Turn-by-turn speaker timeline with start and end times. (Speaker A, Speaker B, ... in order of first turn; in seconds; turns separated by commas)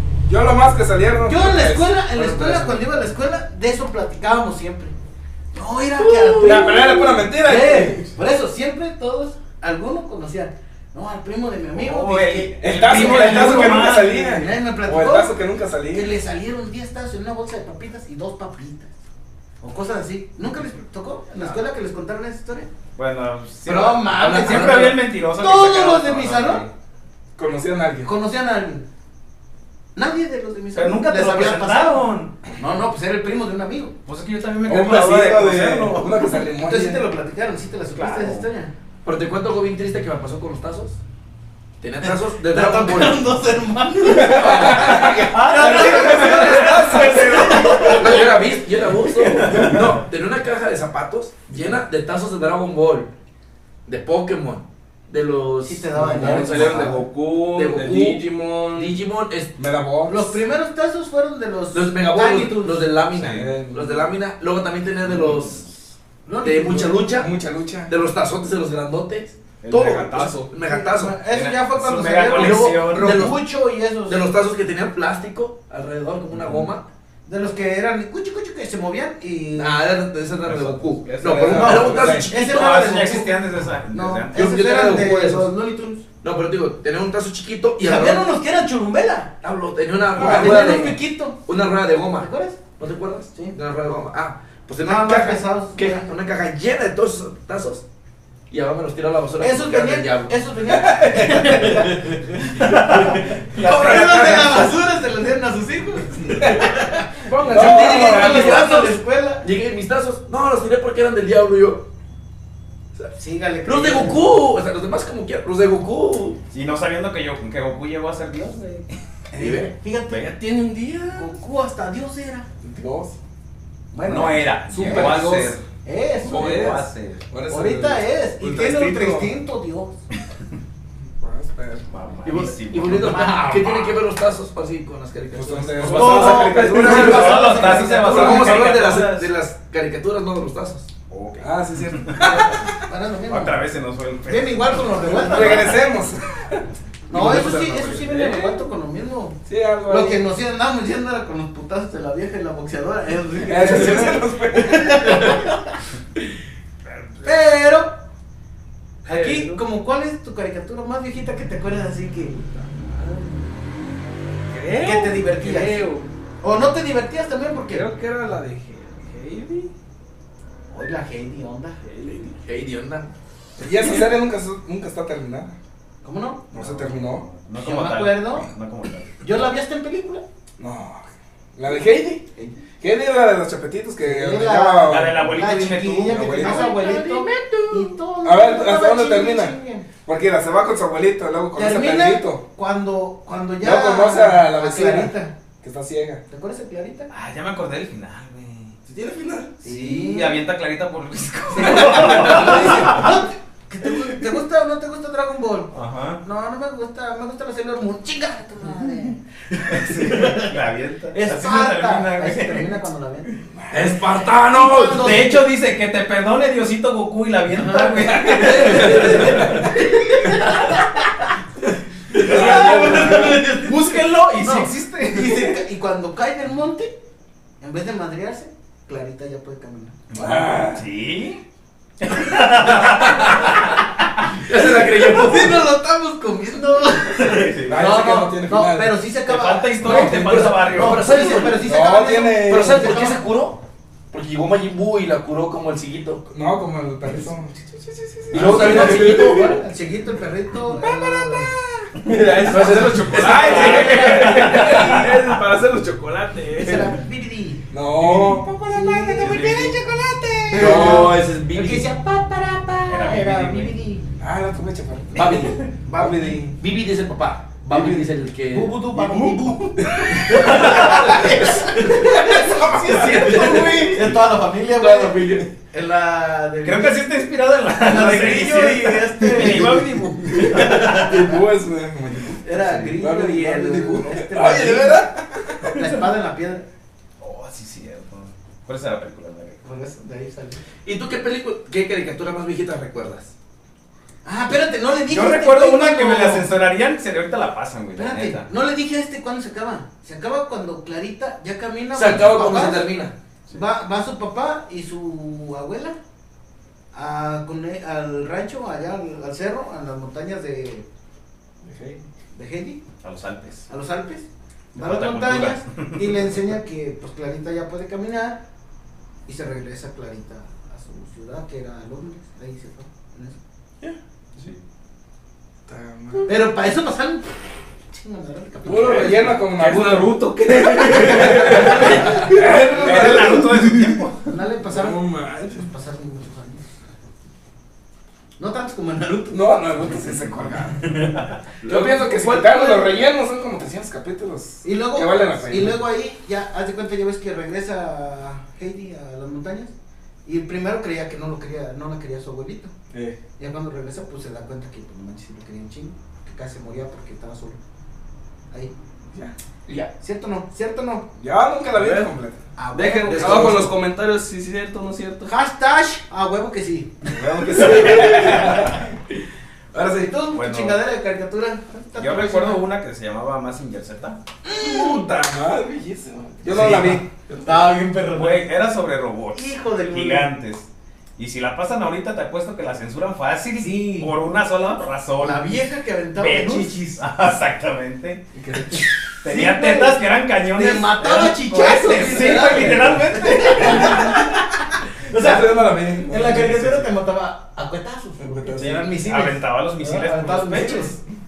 Speaker A: 0.2-2.8, Speaker B: 1.2-4.9, Speaker B: 5.5-15.4, Speaker C: 5.9-7.2, Speaker A: 6.4-8.1, Speaker D: 11.7-14.4, Speaker A: 12.6-16.1, Speaker B: 15.9-18.9, Speaker B: 19.6-22.7, Speaker D: 22.9-26.7, Speaker B: 23.6-26.6, Speaker A: 27.4-28.1, Speaker B: 28.0-28.9, Speaker B: 29.9-33.9, Speaker D: 30.7-32.3, Speaker D: 34.0-36.1, Speaker A: 34.7-37.0, Speaker B: 36.6-38.7, Speaker D: 37.9-38.5, Speaker C: 39.0-41.0, Speaker C: 41.8-43.3, Speaker B: 42.0-49.5, Speaker A: 44.1-47.4, Speaker C: 44.2-45.4, Speaker D: 44.9-48.3, Speaker C: 47.9-53.1, Speaker D: 49.2-49.8, Speaker C: 53.8-59.5, Speaker B: 55.6-57.0, Speaker A: 56.0-57.0, Speaker E: 56.2-59.0, Speaker A: 59.6-60.4, Speaker B: 60.1-62.9, Speaker C: 61.7-65.7, Speaker A: 63.2-64.1, Speaker D: 65.0-65.6, Speaker B: 66.2-67.2, Speaker C: 66.4-67.3, Speaker A: 67.1-67.9, Speaker C: 67.9-71.2, Speaker D: 69.6-70.0, Speaker E: 70.0-70.4, Speaker B: 70.6-74.3, Speaker D: 71.3-73.3, Speaker C: 72.3-73.5, Speaker C: 74.0-76.9, Speaker A: 76.3-76.6, Speaker B: 77.2-79.8, Speaker C: 79.5-83.0, Speaker A: 80.5-82.3, Speaker E: 81.0-82.1, Speaker B: 81.5-86.0, Speaker D: 82.3-84.5, Speaker C: 84.3-85.5, Speaker C: 86.2-88.3, Speaker B: 87.8-89.3, Speaker C: 89.4-97.8, Speaker A: 90.1-90.9, Speaker B: 90.2-91.4, Speaker B: 92.2-92.6, Speaker B: 94.8-96.1, Speaker C: 98.5-100.3, Speaker B: 99.4-109.5, Speaker A: 100.7-101.9, Speaker C: 101.6-102.1, Speaker C: 102.8-104.7, Speaker A: 103.7-104.6, Speaker A: 106.4-106.7, Speaker C: 107.2-111.8, Speaker A: 107.4-108.7, Speaker E: 107.5-108.6, Speaker B: 113.2-114.3, Speaker C: 113.7-116.4, Speaker D: 116.5-118.9, Speaker B: 119.3-120.2, Speaker C: 119.3-121.2, Speaker B: 121.1-122.5, Speaker A: 122.6-123.2, Speaker B: 123.9-126.7, Speaker D: 124.0-125.6, Speaker A: 124.7-125.6, Speaker D: 126.2-127.2, Speaker A: 126.2-129.3, Speaker B: 127.5-129.9, Speaker A: 131.0-131.9, Speaker D: 131.9-133.2, Speaker C: 132.2-140.9, Speaker B: 132.9-134.0, Speaker A: 135.3-138.5, Speaker B: 135.8-138.6, Speaker D: 136.1-139.3, Speaker D: 141.1-142.5, Speaker A: 141.4-142.6, Speaker B: 142.2-143.6, Speaker D: 143.3-145.6, Speaker B: 144.2-145.8, Speaker A: 145.0-148.0, Speaker B: 147.1-155.8, Speaker E: 147.9-148.6, Speaker A: 149.4-150.2, Speaker A: 153.4-155.4, Speaker B: 157.2-157.9, Speaker B: 159.0-162.4, Speaker E: 159.1-159.6, Speaker E: 162.4-163.4, Speaker E: 164.5-166.1, Speaker B: 164.7-167.9, Speaker E: 167.7-169.7, Speaker B: 170.7-171.8, Speaker E: 171.8-172.4, Speaker C: 172.3-173.1, Speaker A: 173.6-175.6, Speaker B: 176.0-176.4, Speaker A: 176.5-177.2, Speaker D: 176.5-179.2, Speaker B: 177.6-178.5, Speaker B: 179.2-180.2, Speaker A: 180.6-182.2, Speaker A: 182.8-185.4, Speaker B: 184.0-189.9, Speaker D: 184.8-186.6, Speaker A: 186.0-186.7, Speaker C: 186.4-187.8, Speaker E: 186.8-187.9, Speaker A: 188.2-192.4, Speaker B: 191.5-195.3, Speaker A: 193.6-196.2, Speaker B: 196.3-197.1, Speaker D: 197.1-198.8, Speaker A: 198.9-199.5, Speaker B: 199.6-200.4, Speaker D: 199.6-203.1, Speaker B: 201.5-210.6, Speaker D: 205.7-206.2, Speaker D: 209.6-212.8, Speaker B: 211.1-213.4, Speaker A: 213.5-214.0, Speaker C: 213.7-215.2, Speaker B: 214.1-215.4, Speaker D: 214.9-219.7, Speaker B: 217.5-221.3, Speaker C: 218.3-219.6, Speaker B: 222.1-226.9, Speaker C: 222.1-223.3, Speaker A: 222.2-223.4, Speaker E: 222.7-223.0, Speaker D: 222.7-225.3, Speaker B: 227.6-230.0, Speaker D: 230.1-231.4, Speaker A: 230.1-230.8, Speaker D: 232.0-233.9, Speaker C: 233.0-233.7, Speaker C: 234.3-235.6, Speaker B: 234.5-243.2, Speaker D: 237.2-237.8, Speaker A: 237.7-239.0, Speaker D: 239.2-241.3, Speaker C: 239.8-241.7, Speaker A: 241.6-242.9, Speaker C: 242.4-243.6, Speaker C: 244.1-246.2, Speaker A: 246.3-249.6, Speaker C: 248.3-249.7, Speaker B: 248.4-251.5, Speaker E: 248.5-248.8, Speaker A: 250.7-255.0, Speaker C: 252.4-254.9, Speaker E: 252.7-257.0, Speaker D: 253.3-255.2, Speaker B: 256.6-258.1, Speaker A: 257.7-259.7, Speaker B: 258.6-264.0, Speaker D: 259.1-259.8, Speaker A: 260.5-261.2, Speaker C: 260.5-261.9, Speaker D: 262.9-263.7, Speaker A: 264.2-266.6, Speaker B: 265.1-266.4, Speaker C: 265.1-265.6, Speaker D: 265.4-265.7, Speaker C: 266.5-268.8, Speaker A: 267.7-268.0, Speaker B: 268.5-277.1, Speaker D: 268.9-271.2, Speaker A: 270.1-270.4, Speaker C: 270.3-274.1, Speaker A: 272.0-273.8, Speaker C: 274.8-275.5, Speaker D: 276.6-281.3, Speaker B: 277.7-279.9, Speaker A: 279.3-285.8, Speaker B: 280.4-281.1, Speaker B: 282.4-285.1, Speaker B: 285.6-286.6, Speaker D: 287.2-289.6, Speaker B: 289.6-290.6, Speaker C: 290.8-293.3, Speaker B: 294.2-296.5, Speaker D: 295.1-298.5, Speaker B: 297.9-302.9, Speaker C: 301.9-303.1, Speaker B: 303.5-306.0, Speaker B: 306.9-310.9, Speaker A: 311.6-312.0, Speaker B: 312.3-312.8, Speaker D: 313.0-313.7, Speaker B: 313.7-318.4, Speaker D: 314.7-316.4, Speaker B: 319.2-323.4, Speaker A: 325.7-326.4, Speaker B: 326.2-329.4, Speaker A: 328.6-333.9, Speaker E: 328.8-332.4, Speaker D: 330.5-334.3, Speaker B: 331.2-333.3, Speaker B: 334.2-336.6, Speaker A: 334.7-335.7, Speaker B: 338.4-340.0, Speaker A: 339.3-341.1, Speaker D: 341.1-341.3, Speaker A: 341.6-345.8, Speaker B: 341.6-343.0, Speaker B: 344.6-349.7, Speaker B: 350.2-352.7, Speaker A: 352.9-353.2, Speaker B: 353.4-357.6, Speaker B: 360.0-361.1, Speaker A: 361.2-362.4, Speaker E: 361.7-362.1, Speaker B: 362.6-363.7, Speaker E: 362.7-365.3, Speaker C: 363.0-363.6, Speaker B: 365.2-368.7, Speaker D: 367.1-368.7, Speaker A: 367.3-368.8, Speaker A: 369.7-370.1, Speaker B: 369.8-372.6, Speaker D: 370.3-370.8, Speaker D: 372.0-374.2, Speaker B: 374.4-375.1, Speaker A: 374.6-377.1, Speaker B: 376.5-378.5, Speaker D: 378.1-385.6, Speaker B: 379.3-380.3, Speaker B: 383.6-384.1, Speaker B: 385.2-387.0, Speaker D: 386.1-388.2, Speaker A: 388.3-388.9, Speaker D: 389.2-394.1, Speaker B: 389.2-401.0, Speaker A: 391.4-394.4, Speaker A: 395.1-396.9, Speaker A: 398.2-398.9, Speaker D: 398.6-400.9